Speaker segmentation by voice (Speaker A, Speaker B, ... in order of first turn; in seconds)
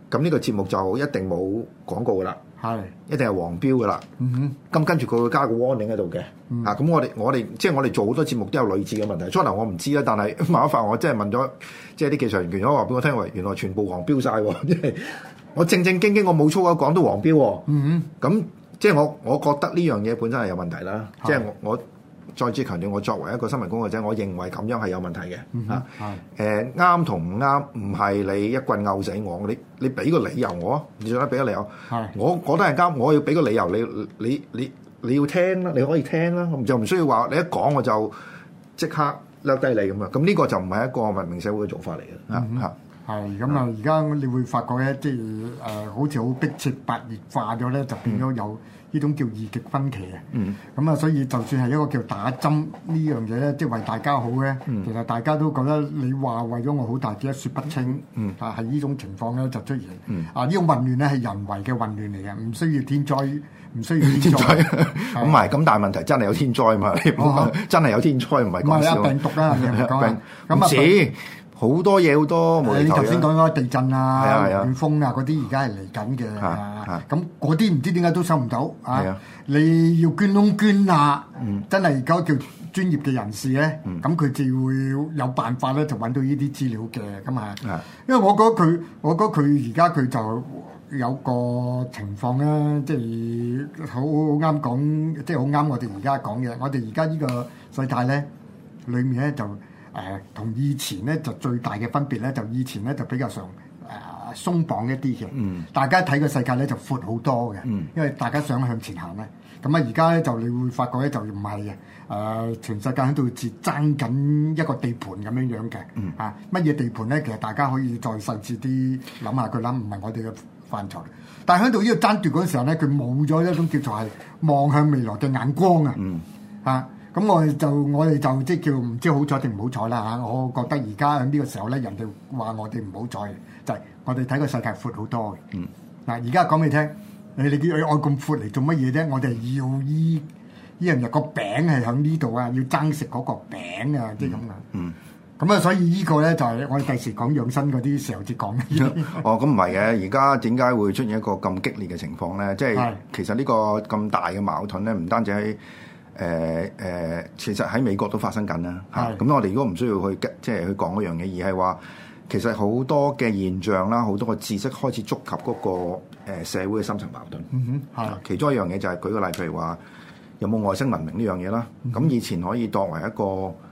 Speaker A: 0.1-2.4, 3.1-4.1, 4.7-17.7, 18.2-38.2, 38.8-42.7, 64.0-73.3, 74.2-74.7, 76.4-77.0, 78.9-79.2, 105.4-105.6, 126.0-126.2, 144.2-145.0, 148.8-155.6, 156.2-167.5, 168.0-169.8, 170.4-173.6
Speaker B: 2.6-2.9, 4.2-4.6, 17.7-18.1, 25.5-26.2, 42.3-65.4, 67.2-67.5, 68.6-71.0, 72.6-98.3, 98.9-126.0, 126.7-135.4, 136.1-140.3, 140.8-144.7, 145.4-149.2, 152.7-153.0, 158.9-159.2, 167.5-168.2